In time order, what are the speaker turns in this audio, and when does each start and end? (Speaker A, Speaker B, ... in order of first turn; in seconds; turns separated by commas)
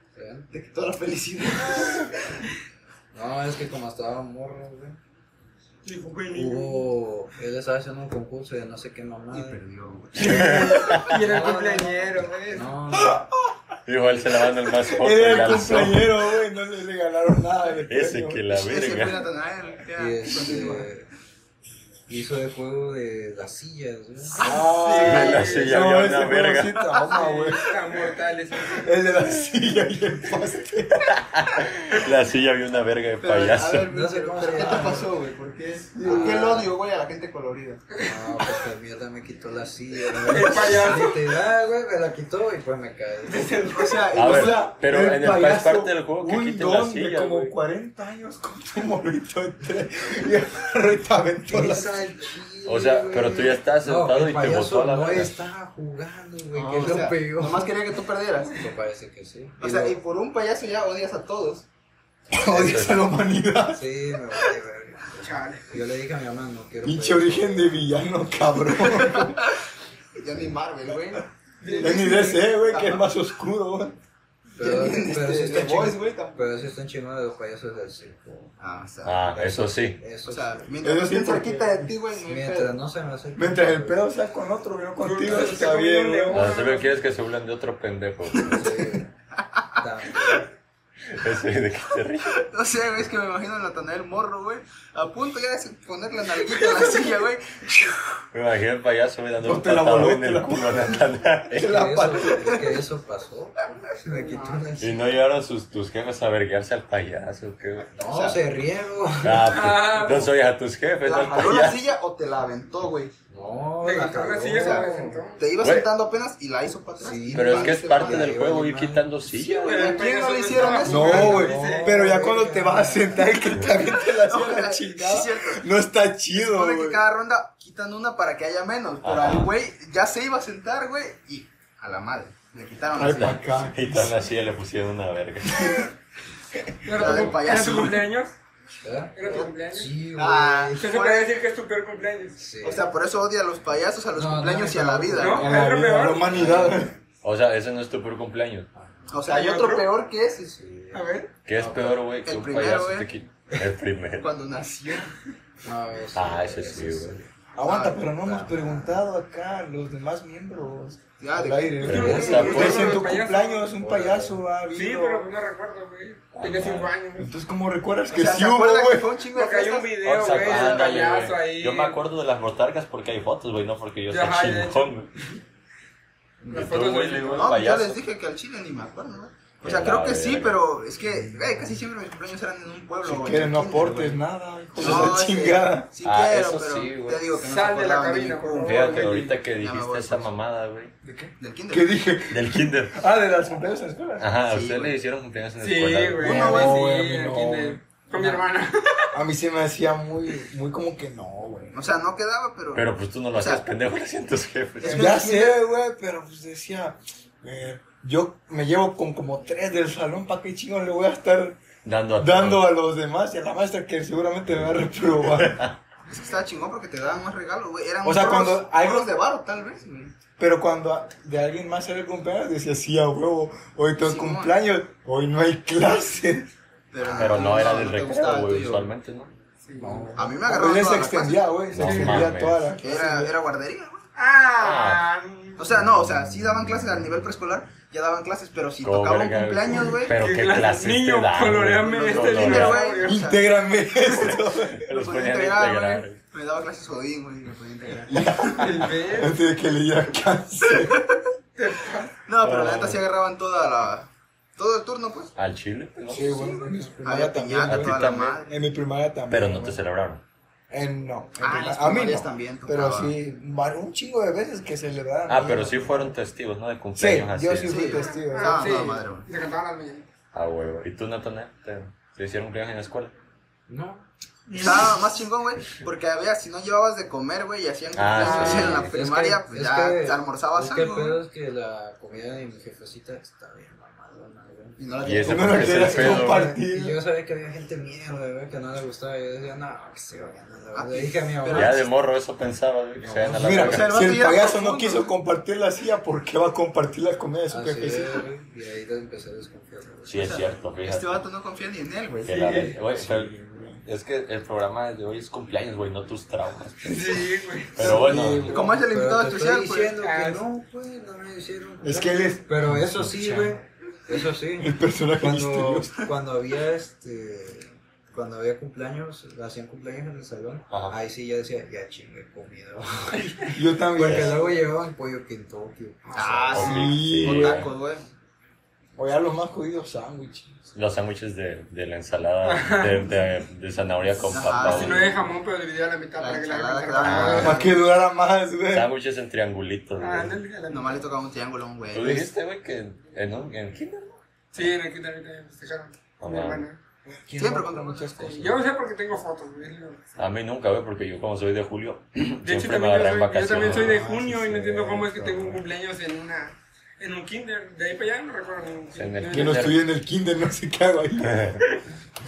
Speaker A: 0.1-0.5, Speaker B: 0.5-2.1, Speaker A: 3.1-5.0, Speaker C: 5.8-6.9, Speaker A: 6.3-9.6, Speaker B: 9.3-10.7, Speaker C: 10.2-12.8, Speaker D: 10.2-11.1, Speaker A: 10.5-13.3, Speaker E: 12.9-13.2, Speaker D: 13.9-16.1, Speaker E: 14.7-18.4, Speaker D: 17.9-19.2, Speaker B: 18.5-20.9, Speaker A: 19.9-21.1, Speaker A: 22.1-24.4, Speaker E: 24.4-27.8, Speaker C: 24.4-25.9, Speaker D: 25.0-26.9, Speaker C: 27.0-29.0, Speaker E: 28.7-31.1, Speaker D: 31.0-33.9, Speaker B: 33.2-37.8, Speaker A: 33.9-35.1, Speaker E: 35.9-36.7, Speaker A: 36.0-36.7, Speaker C: 37.9-38.6, Speaker A: 38.0-43.7, Speaker C: 40.1-41.3, Speaker C: 43.3-44.2, Speaker B: 43.7-44.7, Speaker D: 44.1-47.5, Speaker E: 44.2-52.1, Speaker A: 51.5-57.7, Speaker D: 52.6-55.4, Speaker D: 56.6-57.1, Speaker B: 56.6-58.6, Speaker A: 58.5-60.0, Speaker B: 59.6-61.7, Speaker E: 62.3-64.5, Speaker D: 62.4-63.1, Speaker A: 63.7-67.9, Speaker C: 65.1-65.7, Speaker E: 66.8-69.4, Speaker B: 69.0-69.3, Speaker B: 70.2-73.1, Speaker C: 71.6-72.4, Speaker E: 71.8-74.0, Speaker A: 74.6-78.5, Speaker B: 74.6-76.5, Speaker B: 78.6-79.3, Speaker D: 79.0-80.0, Speaker A: 79.3-80.7, Speaker B: 80.3-82.8, Speaker E: 80.8-81.9, Speaker A: 82.2-84.0, Speaker E: 83.4-86.5, Speaker C: 85.0-87.0, Speaker D: 86.3-88.8, Speaker B: 88.3-88.7, Speaker A: 88.5-89.1, Speaker B: 89.4-90.4, Speaker A: 89.8-90.5, Speaker D: 91.1-92.5, Speaker B: 92.3-98.1, Speaker D: 98.3-101.9, Speaker E: 99.4-102.7, Speaker A: 101.6-105.1, Speaker C: 104.1-104.8, Speaker D: 104.8-107.9, Speaker A: 108.0-109.8, Speaker B: 108.0-108.4, Speaker D: 109.2-111.9, Speaker C: 109.5-110.3, Speaker B: 111.0-113.1, Speaker A: 113.3-115.2, Speaker C: 113.8-115.5, Speaker B: 114.3-118.4, Speaker D: 115.6-115.9, Speaker A: 117.0-119.1, Speaker D: 117.3-120.0, Speaker B: 119.5-121.6, Speaker C: 119.6-122.1, Speaker A: 120.5-123.4, Speaker E: 120.8-127.0, Speaker B: 123.7-125.6, Speaker B: 126.3-133.5, Speaker D: 129.0-129.5, Speaker E: 132.9-134.2, Speaker D: 133.0-135.9, Speaker C: 136.8-138.3, Speaker B: 136.9-138.1, Speaker A: 138.8-140.9, Speaker C: 139.2-139.9, Speaker B: 139.2-139.5, Speaker B: 140.2-141.4, Speaker C: 140.8-142.4, Speaker A: 142.4-142.9, Speaker B: 142.6-145.6, Speaker A: 144.2-145.6, Speaker C: 145.2-146.6, Speaker E: 145.3-146.9, Speaker A: 146.3-146.9, Speaker D: 147.2-148.7, Speaker A: 148.8-149.1, Speaker B: 149.1-150.6, Speaker C: 149.3-149.9, Speaker A: 150.6-152.0, Speaker C: 150.9-151.3, Speaker D: 151.4-154.3, Speaker B: 152.2-153.1, Speaker B: 154.2-155.1, Speaker A: 155.6-157.3, Speaker D: 156.1-157.2, Speaker E: 157.6-165.3, Speaker B: 157.6-158.0, Speaker A: 157.9-159.0, Speaker B: 161.2-162.6, Speaker D: 161.8-163.1, Speaker C: 161.9-163.7, Speaker A: 161.9-163.1, Speaker A: 163.7-164.4, Speaker C: 164.7-167.3, Speaker D: 166.3-166.9, Speaker E: 167.2-169.2, Speaker B: 168.1-170.9, Speaker C: 169.3-172.0, Speaker D: 170.0-175.1, Speaker C: 174.1-175.3, Speaker C: 176.4-177.6, Speaker D: 176.5-178.0, Speaker B: 177.3-184.2, Speaker D: 179.6-180.6, Speaker E: 181.1-181.7, Speaker E: 183.0-185.9, Speaker B: 184.8-190.3, Speaker D: 184.8-185.2, Speaker D: 186.0-187.3, Speaker C: 187.3-189.4, Speaker D: 188.6-190.9, Speaker E: 191.0-194.3, Speaker B: 191.4-192.0, Speaker D: 192.3-193.0, Speaker D: 194.2-196.5, Speaker B: 194.5-195.0, Speaker C: 195.6-199.2, Speaker B: 196.2-196.9, Speaker E: 196.2-198.4, Speaker E: 199.1-201.8, Speaker B: 201.7-203.6, Speaker D: 202.7-205.1, Speaker B: 204.8-205.6, Speaker C: 204.8-205.3, Speaker E: 204.8-211.6, Speaker D: 211.8-212.7, Speaker E: 212.2-215.7, Speaker D: 214.5-215.8, Speaker B: 216.1-220.1, Speaker E: 218.0-219.1, Speaker E: 220.4-226.5, Speaker B: 224.0-224.6, Speaker B: 226.9-228.9, Speaker D: 227.0-229.3, Speaker C: 229.6-230.2, Speaker A: 229.8-230.3, Speaker E: 229.8-233.3, Speaker B: 230.2-231.7, Speaker D: 231.7-232.6, Speaker C: 231.8-232.2, Speaker B: 232.8-234.1, Speaker C: 234.2-235.7, Speaker D: 234.6-235.1, Speaker B: 235.6-240.2, Speaker D: 238.8-242.8, Speaker C: 240.1-243.3, Speaker B: 241.9-243.5, Speaker E: 242.8-244.9, Speaker D: 244.2-246.2, Speaker B: 244.8-248.7, Speaker E: 248.1-251.1, Speaker C: 248.5-249.4, Speaker B: 250.9-251.2, Speaker C: 251.6-252.1, Speaker B: 252.3-255.3, Speaker D: 252.4-253.0, Speaker D: 255.4-256.6, Speaker E: 256.1-259.8, Speaker B: 257.0-258.6, Speaker D: 257.6-258.4, Speaker D: 259.3-260.2, Speaker E: 260.7-266.1, Speaker B: 261.4-263.1, Speaker D: 265.3-267.9, Speaker E: 267.0-268.9, Speaker B: 267.6-269.3, Speaker C: 267.8-270.1, Speaker D: 270.3-273.1, Speaker A: 273.7-274.1, Speaker C: 274.5-275.0, Speaker B: 274.6-281.2, Speaker D: 277.9-278.9, Speaker C: 278.2-278.8, Speaker A: 278.3-284.8, Speaker B: 284.8-286.0, Speaker D: 285.1-286.6, Speaker E: 285.2-287.0, Speaker A: 285.6-291.9, Speaker B: 290.7-291.9, Speaker D: 291.5-293.9, Speaker A: 293.0-293.4, Speaker E: 293.3-298.3, Speaker B: 293.5-295.1, Speaker A: 297.5-300.5, Speaker D: 300.1-301.2, Speaker B: 300.2-302.7, Speaker D: 302.2-303.3, Speaker E: 302.6-303.8, Speaker D: 303.8-308.6, Speaker C: 306.8-308.2, Speaker E: 307.8-308.8, Speaker B: 308.4-310.0, Speaker A: 308.6-326.9, Speaker C: 310.0-310.4, Speaker E: 311.8-313.6, Speaker E: 314.6-316.1, Speaker D: 320.7-321.0, Speaker C: 323.2-323.5, Speaker E: 323.5-324.4, Speaker D: 324.0-324.4, Speaker C: 326.1-326.4, Speaker B: 326.1-328.1, Speaker D: 326.5-327.7, Speaker E: 326.6-327.7, Speaker E: 329.0-330.6, Speaker D: 330.7-335.2, Speaker C: 332.4-333.1, Speaker B: 334.3-335.1, Speaker C: 334.5-337.7, Speaker B: 336.2-338.0, Speaker D: 337.0-337.6, Speaker E: 337.2-338.9, Speaker D: 338.7-340.4, Speaker C: 340.0-341.1, Speaker B: 340.7-342.3, Speaker D: 341.9-344.7, Speaker C: 344.5-346.8, Speaker D: 346.2-346.7, Speaker E: 347.1-348.6, Speaker B: 347.4-348.2, Speaker C: 348.2-350.1, Speaker D: 350.2-354.1, Speaker C: 352.4-359.8, Speaker E: 353.6-355.6, Speaker D: 358.9-359.8, Speaker E: 359.3-361.4, Speaker D: 361.2-361.6